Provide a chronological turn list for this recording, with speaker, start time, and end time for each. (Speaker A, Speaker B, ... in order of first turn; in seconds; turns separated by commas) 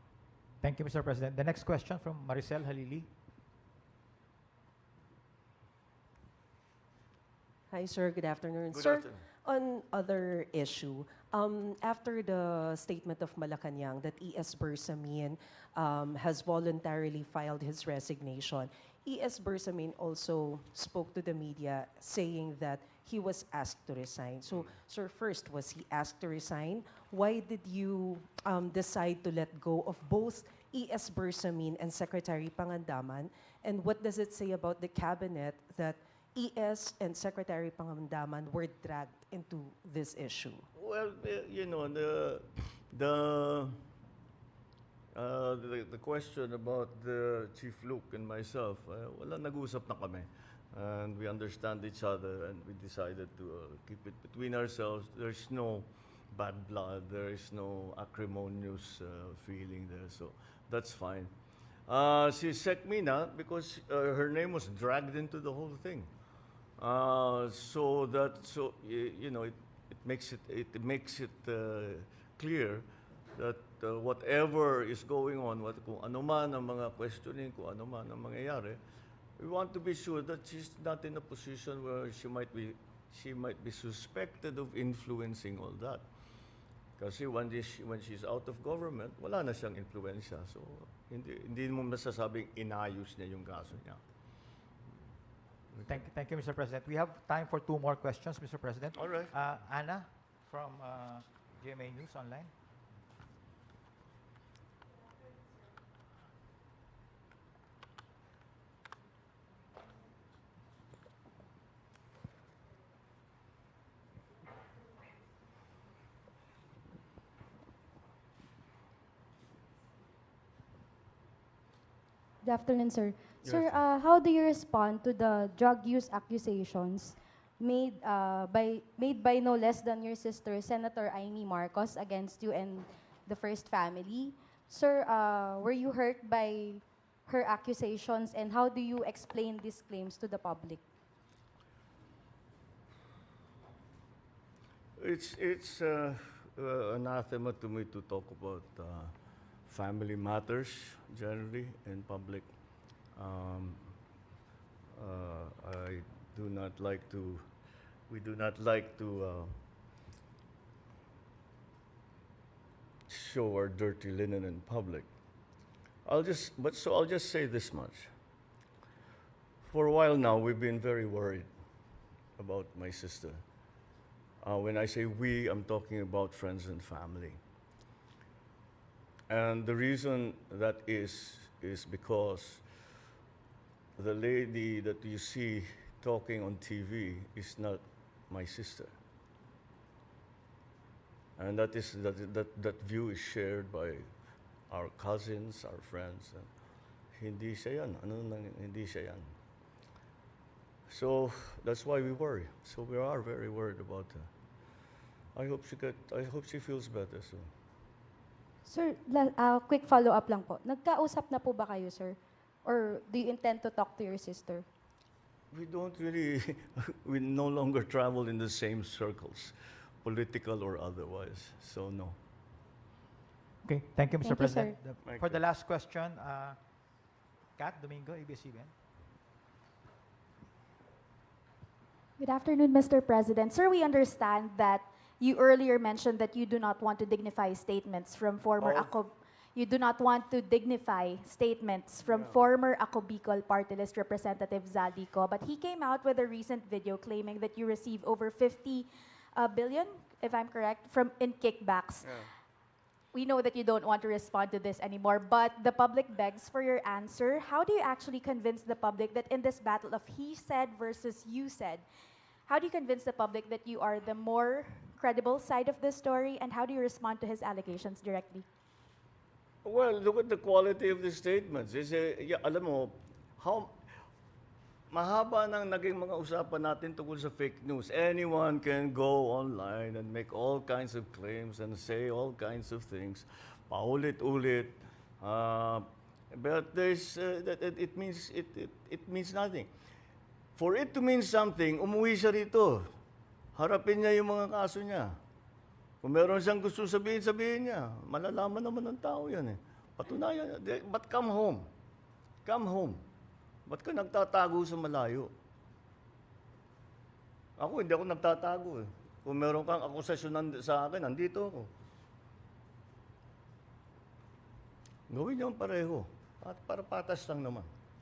Speaker A: 0.6-3.1, Speaker B: 7.7-40.6, Speaker C: 8.7-9.2, Speaker C: 40.7-43.7, Speaker C: 45.1-61.3, Speaker C: 61.9-66.1, Speaker C: 66.8-78.8, Speaker C: 79.4-86.0, Speaker C: 87.0-94.0, Speaker C: 95.7-96.0, Speaker A: 95.9-102.5, Speaker C: 98.9-99.3, Speaker D: 122.4-140.8, Speaker C: 123.4-123.7, Speaker C: 145.0-149.1, Speaker C: 149.7-152.5, Speaker C: 153.1-153.9, Speaker C: 154.9-157.5, Speaker C: 158.1-159.5, Speaker C: 163.1-165.1, Speaker C: 166.0-168.1, Speaker C: 169.6-171.5, Speaker C: 172.4-173.4, Speaker C: 174.4-177.4, Speaker C: 179.3-182.6, Speaker C: 184.0-188.9, Speaker C: 191.4-194.1, Speaker C: 194.7-196.5, Speaker C: 197.1-199.3, Speaker C: 200.9-204.3, Speaker C: 205.3-207.5, Speaker D: 208.6-214.7, Speaker C: 215.5-222.2, Speaker A: 223.6-226.6, Speaker D: 224.2-224.8, Speaker C: 225.0-225.4, Speaker A: 227.6-228.7, Speaker E: 232.2-252.3, Speaker C: 238.6-238.9, Speaker C: 242.1-242.4, Speaker C: 252.0-252.3, Speaker E: 253.1-261.8, Speaker E: 262.5-268.4, Speaker C: 269.6-273.7, Speaker C: 274.9-289.7, Speaker C: 290.6-292.9, Speaker C: 293.5-295.2, Speaker C: 296.0-301.6, Speaker C: 302.4-303.0, Speaker C: 303.7-305.3, Speaker C: 307.6-311.7, Speaker C: 315.1-317.7